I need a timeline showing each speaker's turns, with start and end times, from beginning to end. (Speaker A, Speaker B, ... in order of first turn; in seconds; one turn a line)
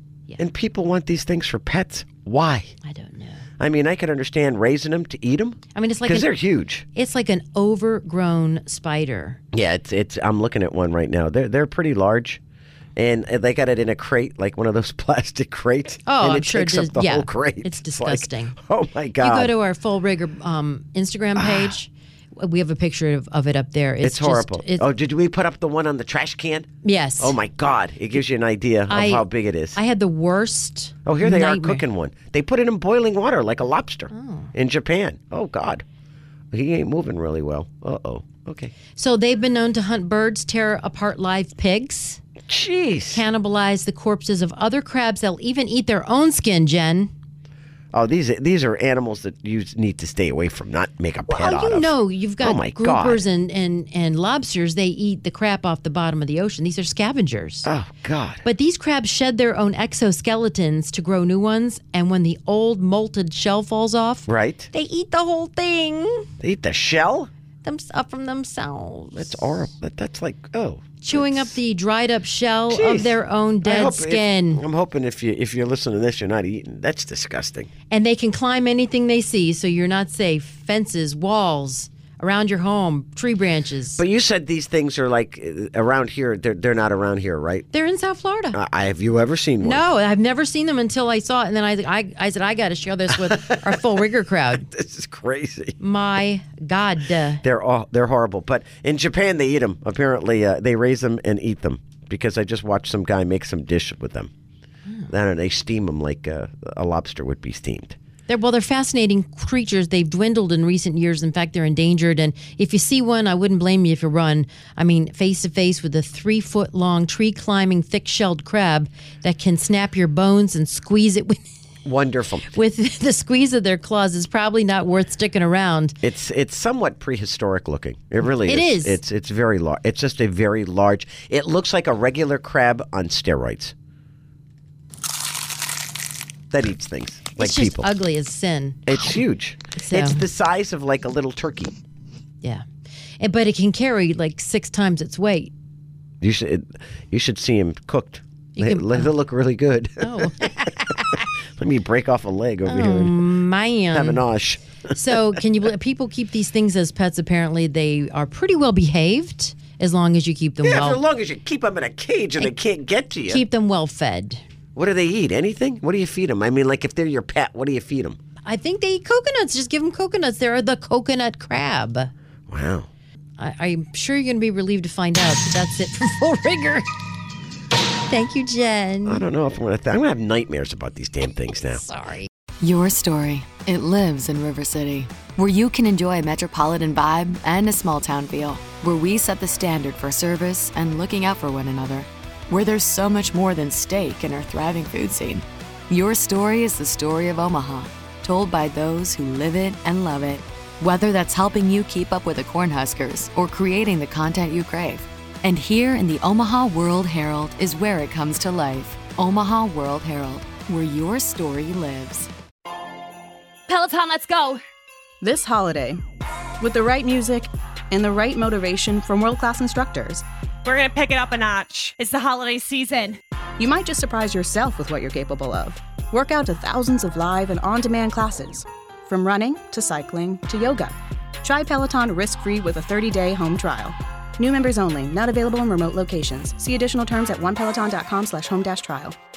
Speaker A: 0.4-2.7
Speaker B: 2.8-3.5
Speaker A: 3.6-6.8
Speaker B: 5.8-6.3
Speaker B: 6.9-9.4
Speaker A: 9.5-12.4
Speaker A: 13.0-19.5
Speaker B: 16.1-18.6
Speaker B: 19.2-24.9
Speaker A: 21.4-21.7
Speaker A: 24.0-29.8
Speaker B: 26.8-27.4
Speaker B: 28.9-31.8
Speaker A: 31.1-35.9
Speaker B: 34.1-34.5
Speaker A: 36.5-38.7
Speaker B: 39.0-42.2
Speaker A: 42.5-43.2
Speaker B: 43.1-47.1
Speaker A: 47.9-53.2
Speaker B: 51.3-57.7
Speaker A: 57.6-58.4
Speaker B: 58.4-66.3
Speaker A: 64.3-64.7
Speaker A: 66.4-67.3
Speaker B: 67.6-69.4
Speaker A: 69.2-71.5
Speaker B: 71.0-74.6
Speaker A: 72.7-77.7
Speaker B: 77.9-84.0
Speaker A: 84.0-87.7
Speaker B: 87.7-88.6
Speaker A: 88.5-89.8
Speaker B: 89.6-94.7
Speaker A: 93.1-93.8
Speaker A: 94.7-95.8
Speaker B: 95.8-97.4
Speaker A: 97.4-104.3
Speaker A: 105.1-108.0
Speaker B: 108.3-121.4
Speaker A: 121.8-122.5
Speaker B: 122.5-126.0
Speaker A: 126.0-133.7
Speaker B: 128.2-129.0
Speaker A: 136.5-137.9
Speaker B: 137.4-138.8
Speaker A: 138.9-141.7
Speaker B: 139.8-140.3
Speaker B: 143.2-145.5
Speaker A: 146.2-150.5
Speaker B: 148.6-149.1
Speaker B: 150.0-150.9
Speaker A: 151.6-153.2
Speaker B: 152.7-154.2
Speaker A: 153.9-155.4
Speaker B: 154.9-161.0
Speaker A: 160.6-163.4
Speaker B: 163.3-164.4
Speaker A: 164.8-168.2
Speaker B: 168.4-172.1
Speaker A: 172.5-172.9
Speaker B: 173.4-176.9
Speaker B: 178.1-179.2
Speaker A: 179.1-181.8
Speaker B: 181.7-182.3
Speaker C: 182.6-212.3
Speaker D: 213.7-214.6
Speaker E: 215.2-216.0
Speaker E: 216.6-220.2
Speaker D: 220.6-223.2
Speaker E: 223.6-239.2